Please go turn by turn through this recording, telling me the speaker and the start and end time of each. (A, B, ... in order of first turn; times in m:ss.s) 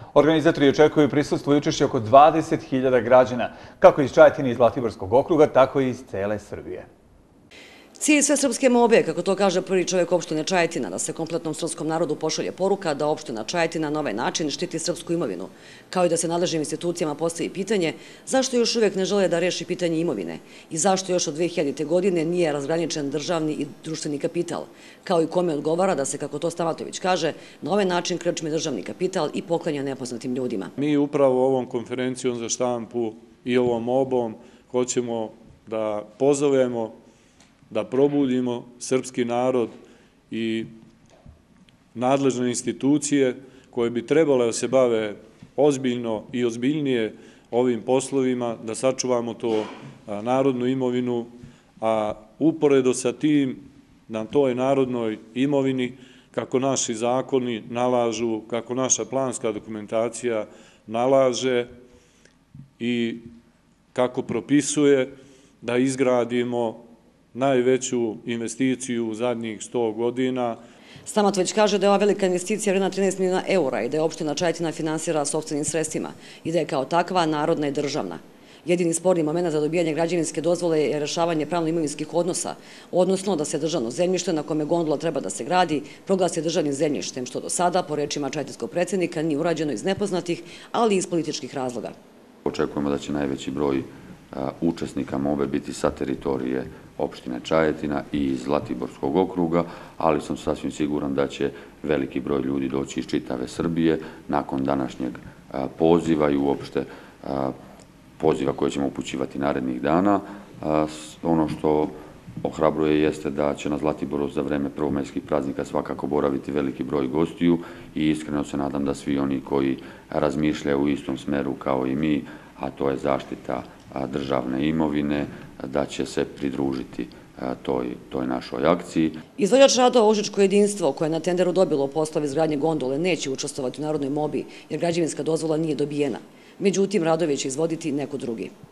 0:00.1-0:06.9 A
0:08.0-0:30.7 B
0:30.8-0:36.9 C
0:37.7-0:39.7 C
0:40.3-0:40.7 C
0:41.9-0:51.3 C
0:51.8-1:01.7 C
1:02.8-1:03.3 C
1:03.9-1:05.1 C
1:05.6-1:06.8 C
1:07.3-1:10.6 C
1:11.0-1:31.9 B
1:32.4-1:47.5 D
1:48.2-2:09.2 D
2:09.4-2:18.5 B